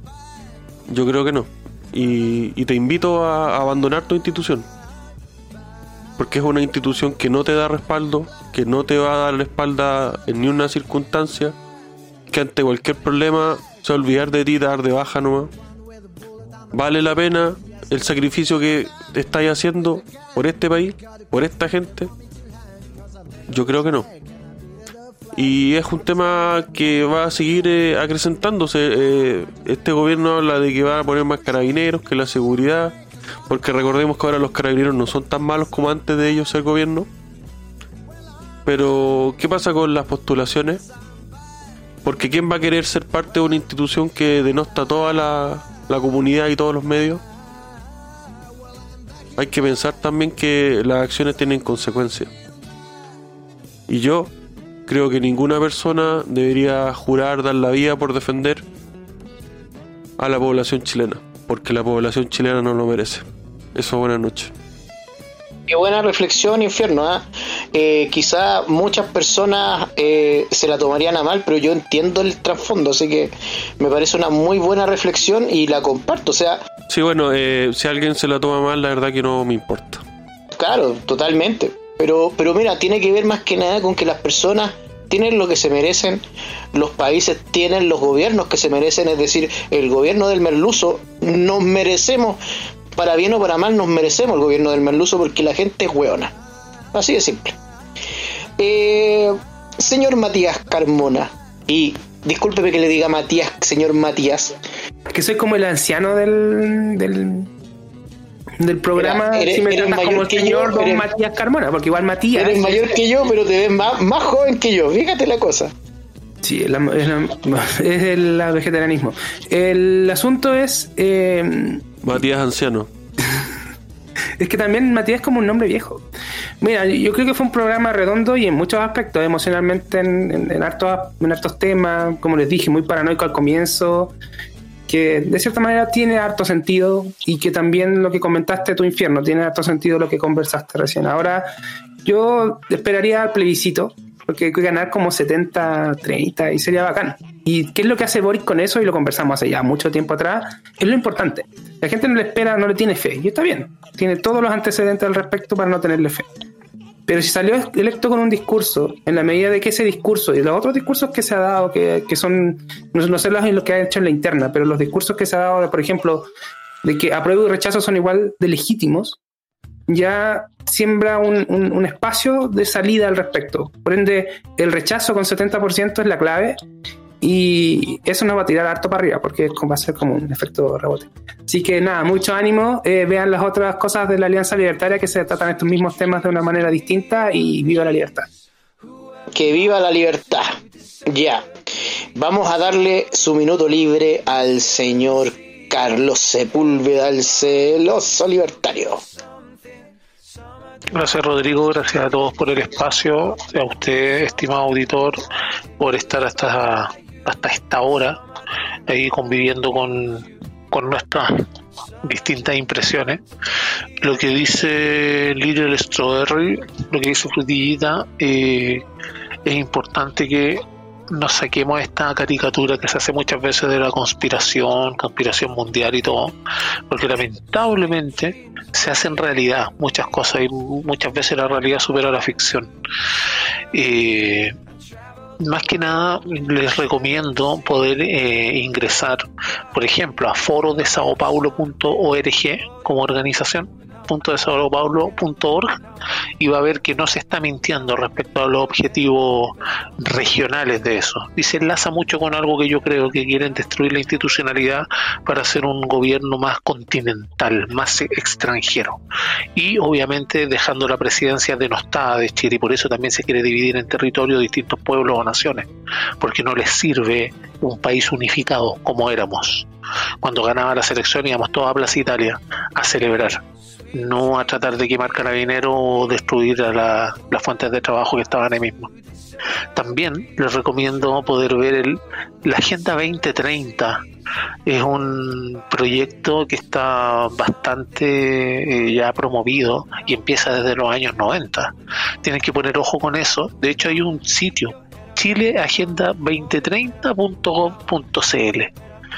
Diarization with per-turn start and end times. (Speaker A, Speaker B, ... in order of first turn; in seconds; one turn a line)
Speaker A: 0.9-4.7
Speaker A: 6.2-11.6
Speaker A: 12.3-15.5
Speaker A: 16.7-22.1
Speaker A: 23.5-24.1
Speaker A: 25.3-33.0
Speaker A: 33.5-37.1
Speaker A: 38.7-40.8
Speaker A: 42.0-47.2
Speaker A: 49.4-52.3
Speaker A: 53.9-54.3
Speaker A: 54.9-58.6
Speaker A: 60.2-64.5
Speaker B: 65.7-76.6
Speaker A: 76.9-80.0
Speaker B: 80.5-86.2
Speaker B: 86.7-92.4
Speaker B: 93.0-96.3
Speaker B: 96.9-97.6
Speaker B: 98.6-104.5
Speaker C: 105.1-107.5
Speaker C: 108.6-113.0
Speaker B: 109.0-111.1
Speaker B: 112.3-115.7
Speaker C: 116.4-122.0
Speaker A: 122.0-122.9
Speaker C: 124.4-126.0
Speaker C: 126.6-134.1
Speaker C: 134.9-141.5
Speaker C: 142.1-156.3
Speaker C: 157.1-166.3
Speaker C: 166.8-169.2
Speaker C: 169.9-176.6
Speaker C: 177.2-188.3
Speaker B: 189.3-190.6
Speaker B: 191.1-191.5
Speaker B: 192.2-199.0
Speaker D: 200.9-205.2
Speaker D: 205.8-208.2
Speaker D: 208.9-211.4
Speaker D: 212.0-213.2
Speaker D: 214.0-218.8
Speaker D: 219.4-226.3
Speaker D: 226.9-232.7
Speaker D: 233.7-234.5
Speaker D: 235.4-239.2
Speaker D: 239.7-245.8
Speaker D: 246.4-259.0
Speaker D: 259.6-265.7
Speaker D: 266.2-269.7
Speaker D: 270.2-273.4
Speaker D: 273.9-278.9
Speaker D: 279.7-284.0
Speaker D: 284.7-298.7